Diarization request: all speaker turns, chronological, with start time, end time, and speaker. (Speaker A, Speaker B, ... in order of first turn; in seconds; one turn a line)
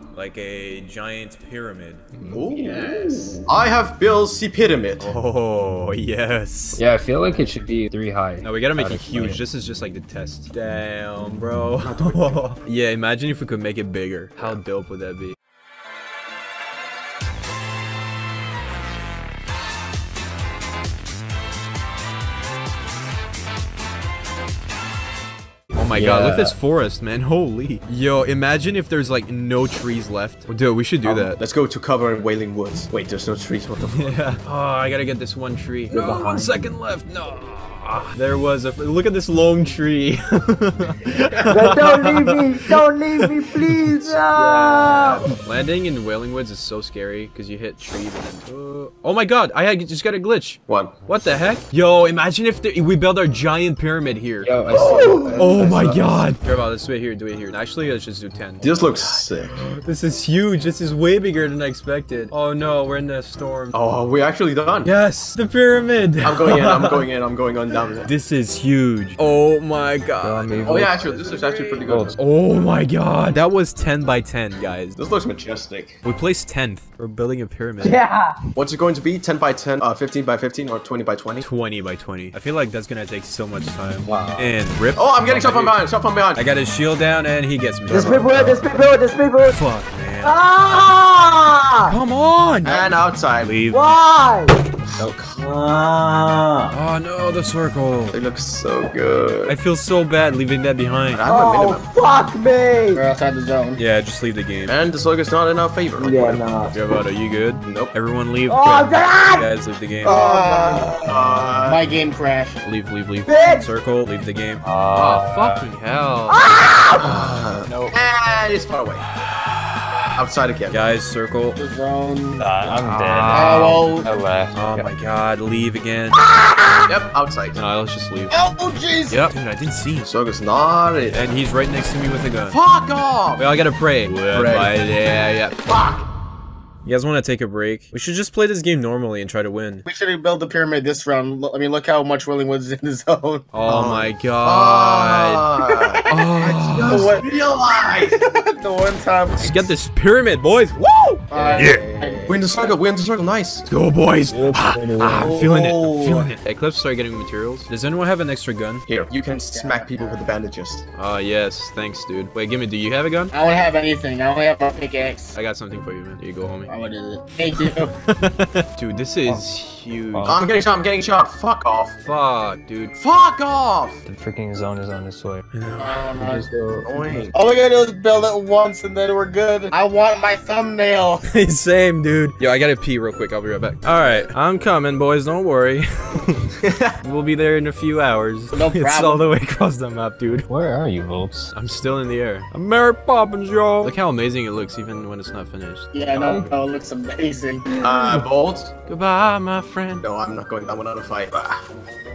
Speaker A: 0.1-2.0
Speaker B: 2.3-5.1
Speaker A: 5.0-6.8
Speaker C: 6.7-9.4
Speaker A: 8.4-15.3
Speaker B: 11.8-12.4
Speaker A: 25.7-31.4
Speaker D: 25.9-26.5
Speaker B: 31.0-34.2
Speaker A: 33.8-63.7
Speaker D: 35.9-36.7
Speaker D: 41.5-45.2
Speaker B: 50.7-50.9
Speaker C: 54.4-56.1
Speaker D: 54.7-55.5
Speaker B: 54.8-55.4
Speaker B: 58.6-59.6
Speaker B: 63.7-64.9
Speaker A: 64.8-67.0
Speaker B: 66.2-68.1
Speaker A: 68.0-75.0
Speaker C: 70.2-71.0
Speaker B: 70.6-72.2
Speaker C: 71.9-72.1
Speaker B: 75.0-76.0
Speaker A: 76.0-78.0
Speaker D: 77.8-78.3
Speaker B: 78.5-81.4
Speaker A: 81.4-85.8
Speaker D: 84.0-84.5
Speaker B: 85.0-86.5
Speaker A: 86.3-88.6
Speaker D: 87.9-89.6
Speaker A: 89.5-90.4
Speaker D: 90.2-92.0
Speaker A: 91.9-93.8
Speaker B: 92.6-93.6
Speaker D: 93.7-94.6
Speaker B: 95.0-95.4
Speaker D: 95.3-96.7
Speaker A: 96.7-98.2
Speaker B: 98.1-99.5
Speaker A: 99.5-101.2
Speaker B: 101.1-101.9
Speaker D: 101.3-103.0
Speaker E: 102.9-103.8
Speaker A: 103.8-104.7
Speaker B: 104.7-106.4
Speaker D: 106.0-106.7
Speaker A: 106.7-110.2
Speaker B: 107.6-107.9
Speaker D: 108.5-109.5
Speaker D: 110.0-110.9
Speaker E: 110.0-112.6
Speaker B: 111.0-111.8
Speaker A: 112.6-117.4
Speaker D: 113.2-113.7
Speaker C: 114.6-115.7
Speaker D: 116.3-117.2
Speaker B: 117.0-119.0
Speaker C: 117.7-117.9
Speaker A: 119.7-121.6
Speaker B: 120.2-120.8
Speaker E: 121.6-122.5
Speaker C: 122.4-124.9
Speaker A: 122.6-123.9
Speaker E: 123.3-124.2
Speaker A: 124.5-126.2
Speaker B: 126.9-127.6
Speaker A: 127.5-128.3
Speaker E: 128.3-129.2
Speaker A: 129.1-130.1
Speaker B: 130.0-131.3
Speaker A: 131.1-132.6
Speaker B: 132.5-133.5
Speaker A: 133.4-135.6
Speaker B: 134.3-134.7
Speaker B: 135.7-136.0
Speaker A: 136.8-139.8
Speaker E: 139.8-143.5
Speaker A: 143.5-145.4
Speaker B: 143.6-148.2
Speaker E: 145.6-146.0
Speaker A: 146.1-147.1
Speaker E: 146.8-149.7
Speaker A: 149.3-151.8
Speaker E: 151.3-152.7
Speaker B: 151.3-151.7
Speaker B: 152.2-153.7
Speaker A: 153.7-158.8
Speaker C: 154.4-155.0
Speaker E: 155.2-156.3
Speaker B: 158.9-160.9
Speaker E: 159.3-160.3
Speaker A: 160.9-163.3
Speaker E: 163.3-165.4
Speaker A: 165.3-166.7
Speaker E: 166.7-167.9
Speaker A: 167.6-170.4
Speaker C: 170.1-170.4
Speaker B: 170.2-171.9
Speaker A: 172.0-172.9
Speaker B: 173.0-174.0
Speaker C: 174.0-175.4
Speaker A: 175.5-176.1
Speaker E: 175.8-176.5
Speaker C: 176.2-177.3
Speaker B: 176.8-177.3
Speaker E: 177.3-181.3
Speaker A: 181.2-190.5
Speaker E: 188.5-189.3
Speaker C: 190.5-191.5
Speaker A: 191.5-196.3
Speaker E: 195.9-197.8
Speaker B: 197.8-198.7
Speaker A: 198.8-200.1
Speaker B: 200.0-201.6